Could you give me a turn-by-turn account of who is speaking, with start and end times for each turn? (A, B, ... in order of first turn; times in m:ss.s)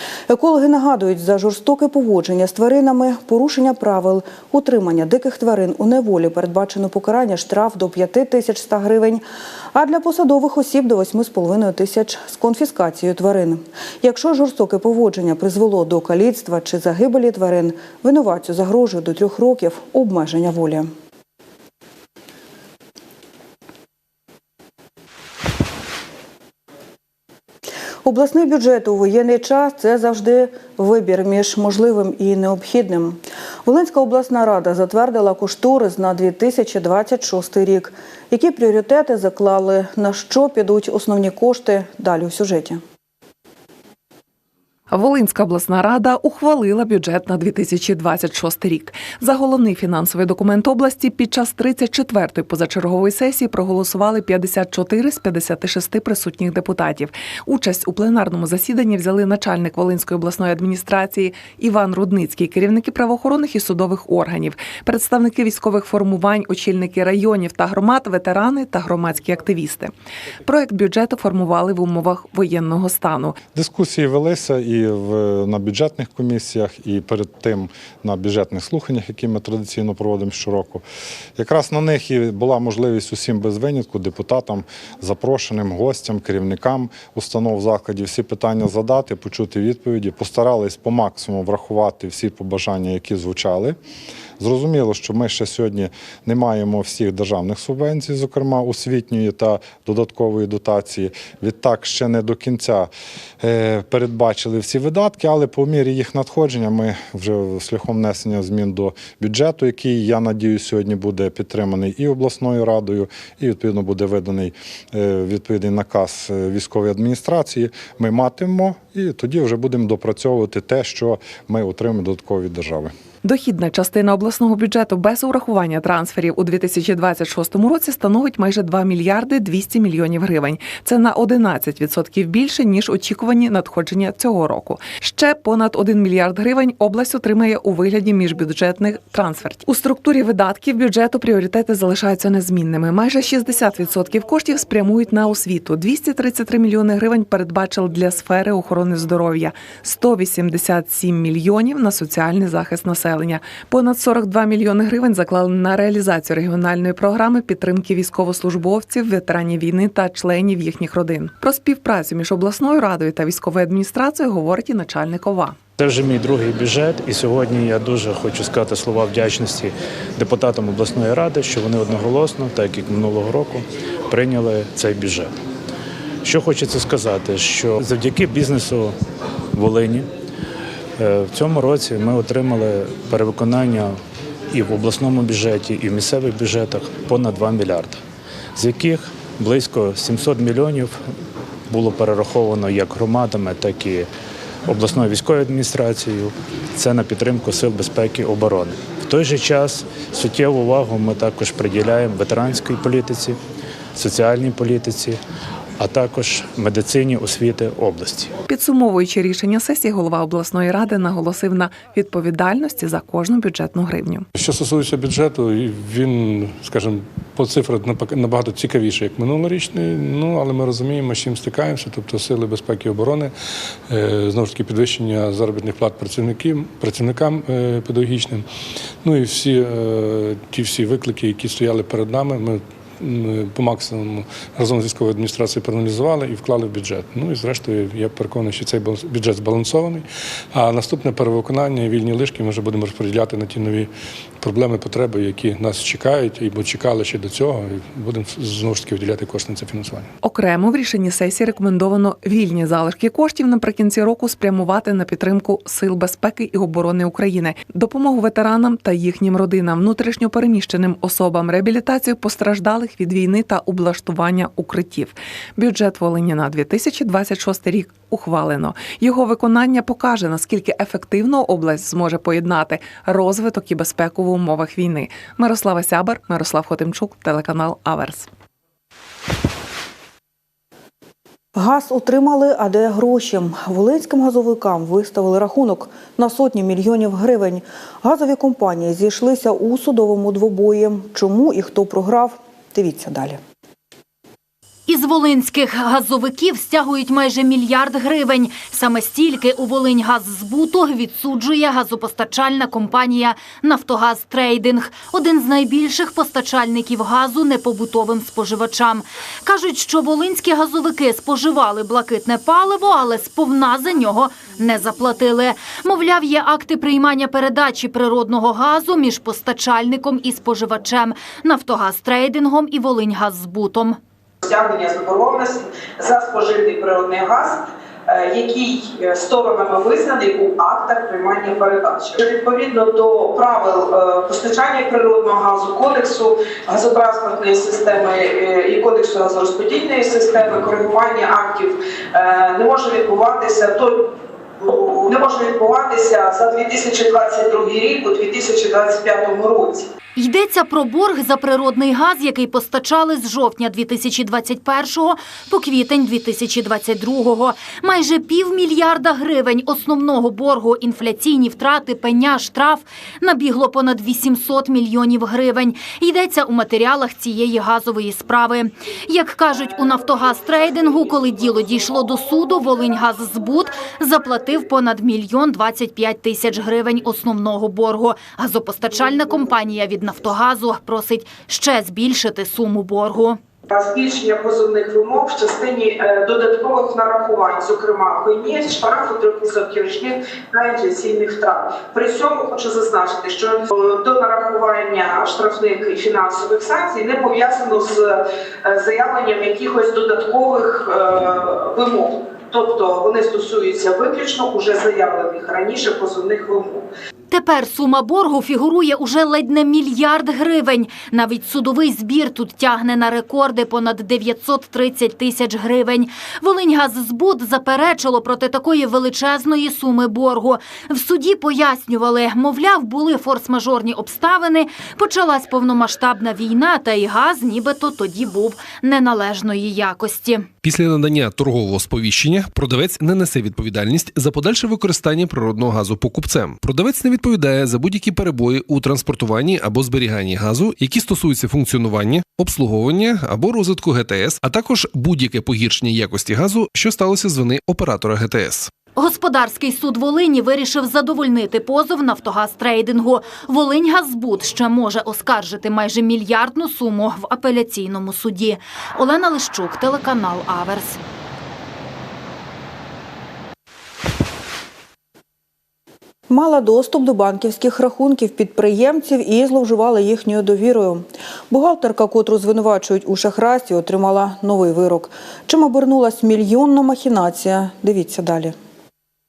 0:00.3-0:20.9 A
0:28.0-0:42.8 A
0:44.9-1:09.9 B
1:10.4-1:13.4 B
1:13.5-1:20.8 C
1:21.4-1:33.8 C
1:34.4-1:42.9 C
1:43.4-2:02.9 C
2:03.2-2:45.6 B
2:45.8-2:55.3 D
2:56.2-2:59.0 D
2:59.5-3:00.1 D
3:01.0-3:04.0 D
3:04.5-3:08.0 D
3:08.5-3:11.0 D
3:11.7-3:14.1 D
3:14.7-3:23.4 D
3:23.9-3:25.2 D
3:25.8-3:28.3 D
3:28.5-3:34.3 B
3:34.3-3:43.3 E
3:43.9-3:48.4 E
3:49.0-4:10.1 E
4:10.2-4:38.3 B
4:41.5-4:53.4 A
4:54.9-5:24.0 F
5:24.4-5:49.9 G
5:50.2-6:23.4 F
6:23.7-6:46.9 G
6:47.3-7:10.5 F
7:10.6-7:28.7 H
7:29.0-7:41.0 F
7:46.3-7:58.6 A